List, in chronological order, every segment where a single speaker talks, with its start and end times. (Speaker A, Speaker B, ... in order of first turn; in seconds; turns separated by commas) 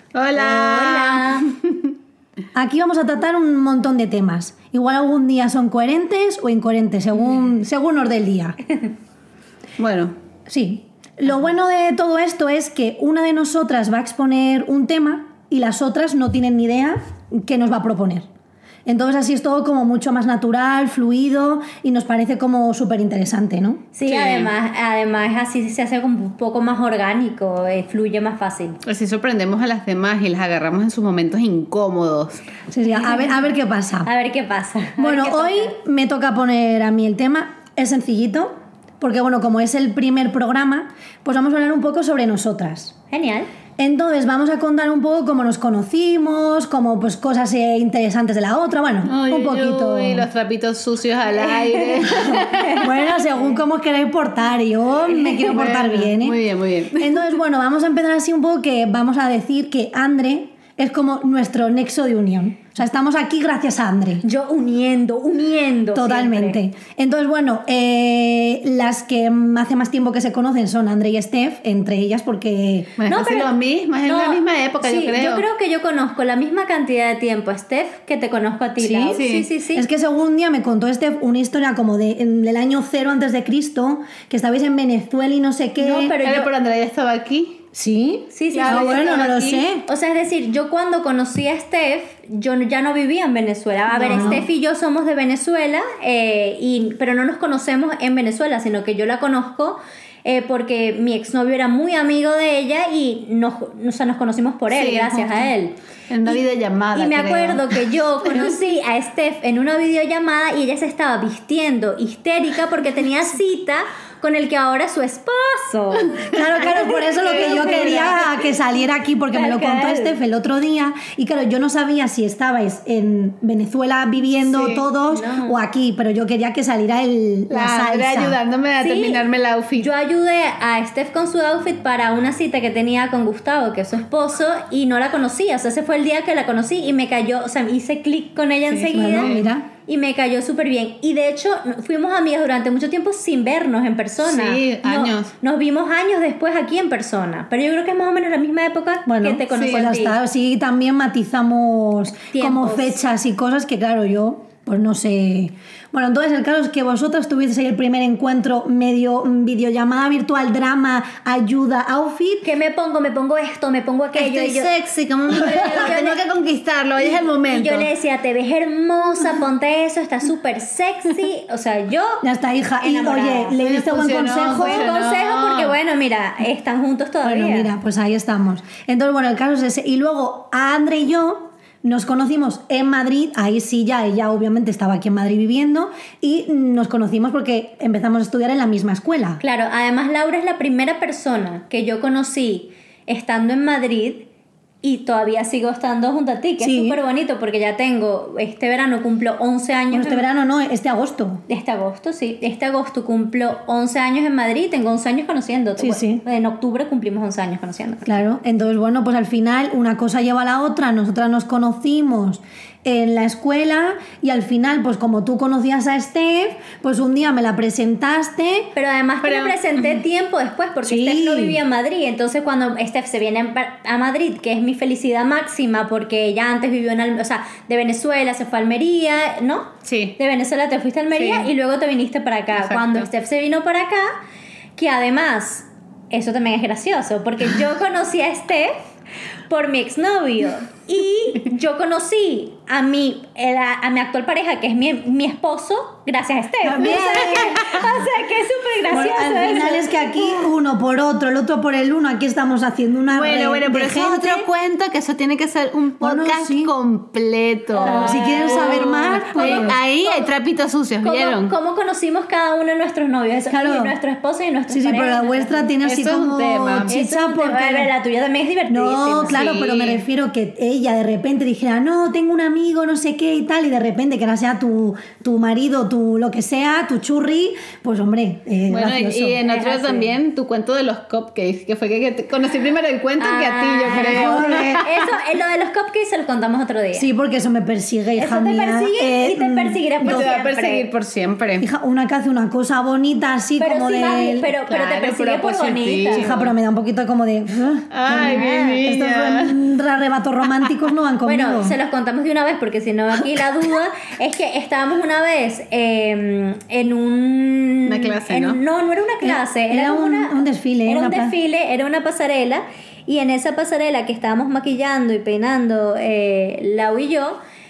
Speaker A: 0.1-1.9, Speaker B: 0.3-1.5, Speaker C: 2.5-8.6, Speaker A: 9.8-10.1, Speaker C: 10.5-18.2, Speaker C: 18.9-23.9, Speaker B: 24.0-28.8, Speaker A: 24.1-24.5, Speaker A: 28.9-32.4, Speaker C: 32.7-34.1, Speaker B: 34.0-35.7, Speaker C: 35.0-42.9, Speaker B: 43.1-43.5, Speaker C: 43.8-50.3, Speaker A: 49.0-52.9, Speaker C: 52.1-56.4, Speaker B: 52.3-52.8, Speaker B: 55.1-55.5, Speaker A: 55.4-57.3, Speaker C: 57.0-64.2, Speaker B: 64.2-66.6, Speaker C: 65.9-73.0, Speaker A: 73.0-75.4, Speaker B: 73.1-73.5, Speaker B: 74.0-79.8, Speaker A: 78.8-79.5, Speaker C: 79.7-86.2, Speaker B: 85.8-86.5, Speaker A: 86.2-87.6, Speaker C: 87.7-89.8, Speaker B: 88.3-105.8, Speaker A: 88.5-89.3, Speaker A: 93.9-94.5, Speaker C: 94.1-94.5, Speaker A: 104.7-105.5, Speaker A: 106.1-108.5, Speaker B: 106.9-118.5, Speaker C: 116.3-128.4, Speaker A: 117.2-118.2, Speaker B: 119.3-120.2, Speaker A: 124.4-124.8, Speaker B: 125.1-125.6, Speaker A: 127.5-129.9, Speaker B: 128.8-129.2, Speaker B: 129.8-139.3, Speaker A: 138.7-139.5, Speaker C: 138.9-139.7, Speaker B: 139.9-150.2, Speaker A: 144.2-145.3, Speaker C: 149.1-162.5, Speaker A: 149.6-149.9, Speaker B: 152.3-153.0, Speaker B: 162.4-164.7, Speaker A: 164.2-167.9, Speaker B: 165.4-166.2, Speaker B: 167.4-172.2, Speaker C: 172.2-174.9, Speaker B: 172.8-173.6, Speaker A: 173.6-175.8, Speaker B: 174.6-177.7, Speaker C: 177.2-189.4, Speaker B: 189.4-194.3, Speaker B: 194.8-200.2, Speaker C: 196.6-197.0, Speaker C: 199.9-201.4, Speaker B: 201.5-208.1, Speaker C: 205.8-206.2, Speaker C: 208.1-218.7, Speaker B: 218.8-234.2, Speaker A: 219.2-220.0, Speaker C: 220.8-221.6, Speaker A: 229.8-230.2, Speaker A: 231.1-231.5, Speaker A: 232.6-233.1, Speaker B: 234.8-238.8, Speaker B: 239.5-250.4, Speaker C: 246.6-247.8, Speaker A: 246.8-247.8, Speaker C: 248.9-254.4, Speaker A: 253.1-261.5, Speaker C: 256.0-256.7, Speaker B: 257.8-260.3, Speaker C: 257.8-259.8, Speaker B: 261.0-265.7, Speaker C: 263.5-263.9, Speaker C: 264.7-267.9, Speaker A: 265.8-266.9, Speaker B: 266.9-269.4, Speaker C: 268.7-279.4, Speaker A: 269.2-270.1, Speaker A: 278.7-285.1, Speaker B: 279.4-280.2, Speaker B: 283.2-287.1, Speaker C: 283.9-284.9, Speaker C: 286.9-290.3, Speaker B: 288.2-290.9, Speaker A: 290.0-291.7, Speaker C: 291.6-294.5, Speaker B: 293.6-296.2, Speaker A: 294.7-296.5, Speaker C: 296.1-301.8, Speaker A: 297.9-299.6, Speaker B: 298.1-298.9, Speaker B: 301.2-317.4, Speaker A: 307.9-308.6, Speaker C: 309.2-311.4